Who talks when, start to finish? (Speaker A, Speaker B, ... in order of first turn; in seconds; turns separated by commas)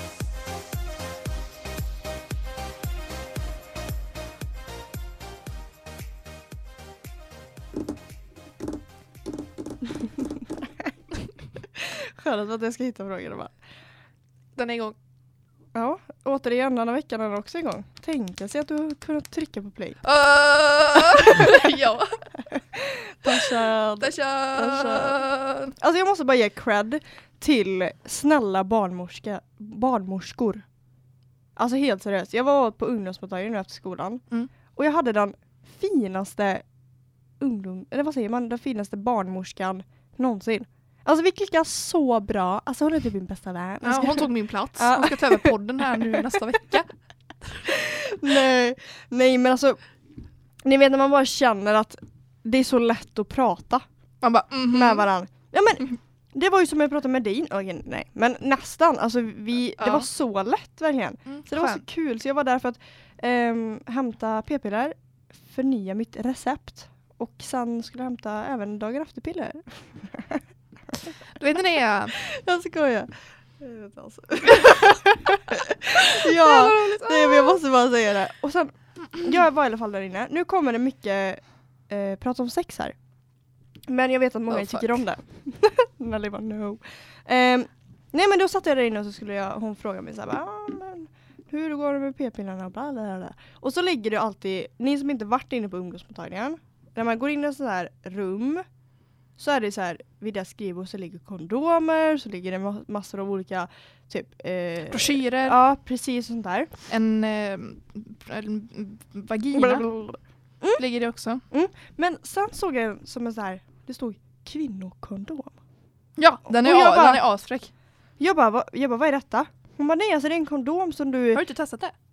Speaker A: 11.7-13.5, Speaker B: 14.6-15.0, Speaker A: 15.7-20.0, Speaker B: 20.0-22.2, Speaker A: 21.1-21.6, Speaker A: 22.5-25.3, Speaker B: 23.3-25.7, Speaker A: 25.8-30.7, Speaker A: 31.6-34.2, Speaker A: 34.7-36.6, Speaker A: 37.4-46.2, Speaker B: 43.8-46.9, Speaker A: 47.6-49.8, Speaker A: 50.6-53.9, Speaker B: 54.2-55.1, Speaker A: 54.7-71.2, Speaker B: 59.8-60.1, Speaker B: 61.3-61.8, Speaker B: 71.3-72.2, Speaker A: 72.1-83.0, Speaker B: 76.0-77.6, Speaker A: 83.9-98.7, Speaker B: 84.5-85.0, Speaker A: 99.4-106.7, Speaker B: 104.9-105.6, Speaker B: 106.9-109.9, Speaker A: 109.5-110.8, Speaker B: 110.8-111.4, Speaker A: 111.5-115.6, Speaker B: 116.2-117.7, Speaker A: 116.5-117.2, Speaker A: 118.2-121.4, Speaker B: 121.3-121.9